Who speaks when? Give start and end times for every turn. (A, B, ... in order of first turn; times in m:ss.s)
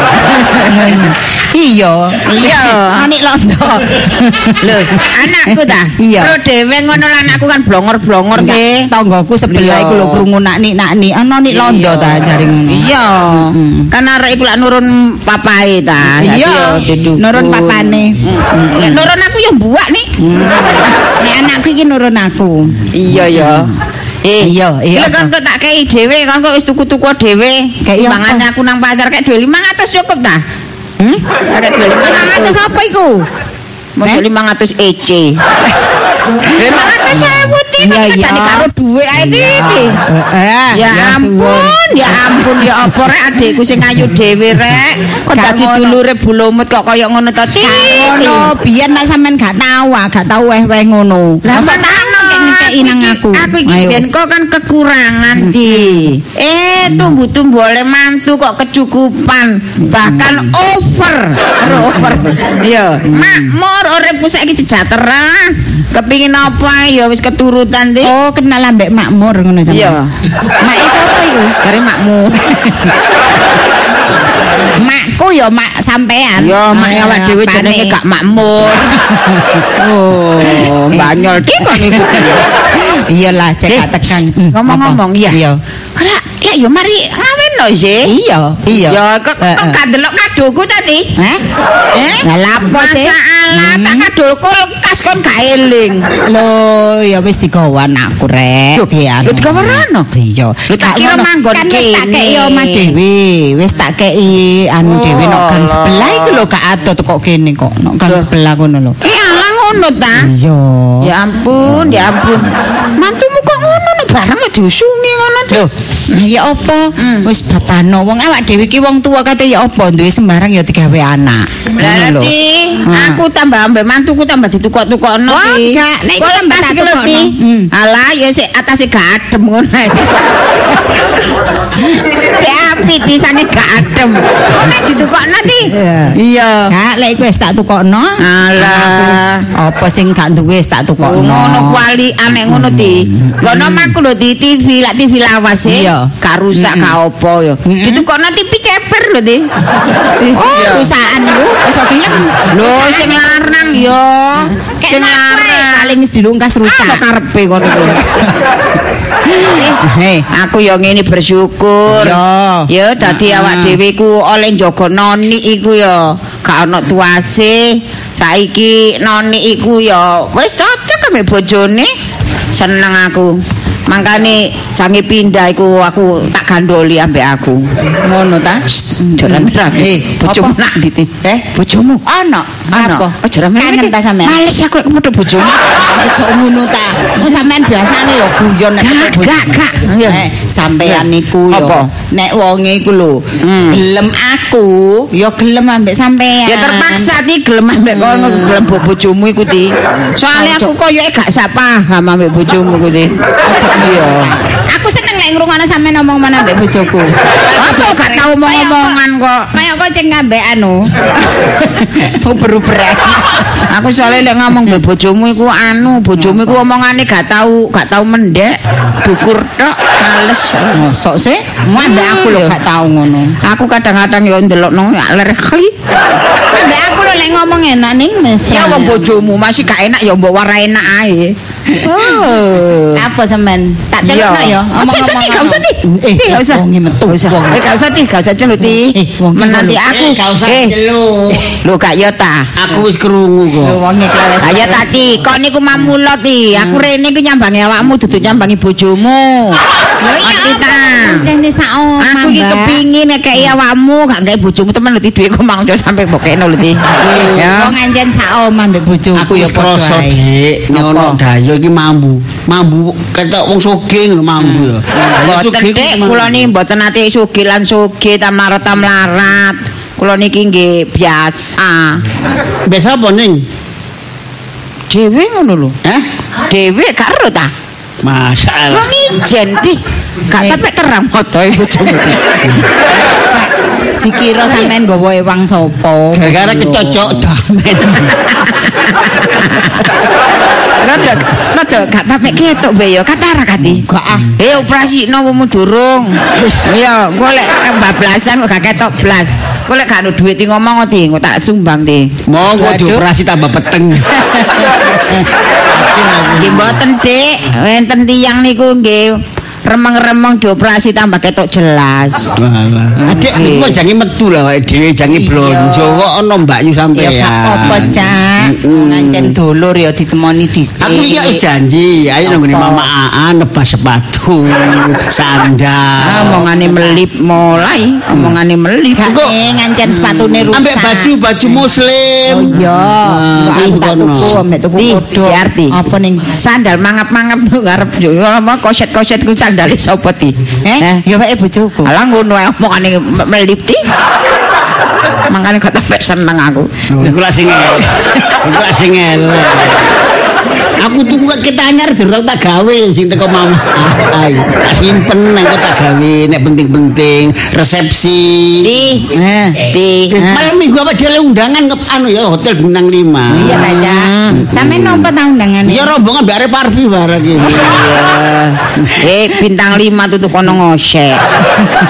0:00.5-0:04.8 A
0:02.3-0:03.1 B
0:04.6-0:08.9 B
0:05.4-0:06.3 A
0:08.3-0:13.9 A
0:09.5-0:10.2 B
0:11.5-0:20.1 B
0:16.0-0:19.1 A
0:20.2-0:23.6 A
0:22.9-0:23.7 B
0:24.2-0:30.4 B
0:24.4-0:25.3 A
0:27.8-0:28.5 A
0:31.5-0:32.6 B
0:32.0-0:33.2 A
0:34.0-0:35.4 B
0:36.5-0:40.0 B
0:37.8-0:42.9 A
0:40.7-0:48.5 B
0:45.3-0:46.0 A
0:47.6-0:54.0 A
0:51.4-1:08.1 B
0:55.4-0:56.2 A
0:59.9-1:00.5 A
1:01.6-1:02.2 A
1:03.1-1:03.5 A
1:08.0-1:10.0 A
1:09.7-1:10.1 B
1:10.6-1:11.5 A
1:11.6-1:12.5 B
1:12.5-1:12.9 A
1:14.6-1:18.0 A
1:16.4-1:19.0 B
1:19.0-1:19.6 A
1:19.7-1:22.4 B
1:20.4-1:25.6 A
1:23.7-1:25.4 B
1:26.0-1:28.1 B
1:28.0-1:29.8 A
1:28.7-1:31.1 B
1:31.2-1:31.4 A
1:31.9-1:36.1 B
1:32.2-1:34.1 A
1:36.2-1:49.0 A
1:38.8-1:40.1 B
1:40.7-1:42.9 B
1:44.9-1:46.4 B
1:49.0-1:50.3 B
1:50.2-1:51.1 A
1:51.0-1:55.7 B
1:55.5-2:02.3 A
1:57.0-1:57.3 B
2:01.8-2:10.6 B
2:02.8-2:03.2 A
2:05.3-2:07.7 A
2:11.9-2:16.7 B
2:15.7-2:21.8 A
2:18.2-2:19.4 B
2:21.0-2:29.5 B
2:22.5-2:23.9 A
2:25.6-2:27.0 A
2:27.6-2:28.0 A
2:30.2-2:33.3 A
2:30.4-2:30.9 B
2:32.5-2:36.0 B
2:34.8-2:37.0 A
2:36.6-2:38.0 B
2:37.9-2:38.4 A
2:39.2-2:40.2 A
2:39.5-2:39.8 B
2:40.3-2:51.9 B
2:41.9-2:43.8 A
2:52.5-2:53.4 B
2:53.9-2:57.6 B
2:58.0-3:00.6 A
2:58.8-3:02.0 B
3:01.2-3:01.5 A
3:02.0-3:04.4 A
3:02.7-3:05.7 B
3:05.7-3:17.1 A
3:08.8-3:10.2 B
3:10.8-3:11.9 B
3:13.4-3:13.8 B
3:16.4-3:23.1 B
3:17.9-3:18.7 A
3:20.3-3:20.7 A
3:23.4-3:29.0 A
3:23.8-3:24.3 B
3:27.6-3:29.5 B
3:29.5-3:33.6 A
3:33.7-3:40.8 B
3:36.2-3:36.5 A
3:40.7-3:43.3 A
3:41.8-3:42.6 B
3:43.4-3:45.7 B
3:46.5-3:49.1 A
3:48.5-3:53.0 B
3:51.9-3:52.2 A
3:53.0-3:57.6 A
3:54.0-4:00.7 B
3:58.6-3:59.8 A
3:59.9-4:01.5 C
4:01.4-4:02.5 B
4:02.6-4:03.8 C
4:03.6-4:04.9 A
4:04.4-4:09.6 B
4:06.6-4:06.8 A
4:10.0-4:12.8 A
4:10.2-4:11.3 B
4:12.0-4:17.8 B
4:17.0-4:21.2 A
4:19.2-4:26.4 C
4:24.5-4:32.0 B
4:32.6-4:33.4 C
4:34.9-4:35.8 B
4:36.5-4:37.5 B
4:38.0-4:38.9 C
4:38.7-4:42.2 B
4:40.4-4:40.6 A
4:44.0-4:47.2 A
4:46.1-4:48.2 C
4:48.5-4:49.9 B
4:50.8-4:53.8 B
4:53.6-4:54.3 A
4:54.4-5:02.1 B
4:56.4-4:56.7 C
5:02.3-5:04.2 C
5:02.5-5:03.0 A
5:04.1-5:05.2 A
5:05.7-5:06.8 C
5:06.4-5:12.3 B
5:12.4-5:19.3 C
5:13.0-5:13.8 B
5:15.1-5:16.1 A
5:16.9-5:21.4 A
5:20.8-5:26.4 C
5:22.2-5:22.9 A
5:26.0-5:29.2 B
5:26.3-5:27.0 A
5:29.0-5:31.1 A
5:29.0-5:29.3 C
5:29.9-5:30.5 B
5:30.5-5:34.4 C
5:32.3-5:36.3 A
5:34.8-5:35.8 B
5:36.3-5:41.0 B
5:40.6-5:41.9 A
5:41.8-5:43.8 B
5:45.3-5:46.8 B
5:46.9-5:49.9 C
5:50.8-5:58.7 C
5:58.6-6:00.4 B
5:59.1-5:59.6 A
6:00.1-6:03.6 C
6:03.3-6:05.9 A
6:03.4-6:04.5 B
6:04.5-6:05.1 C
6:05.6-6:07.8 C
6:07.4-6:11.2 B
6:07.6-6:08.3 A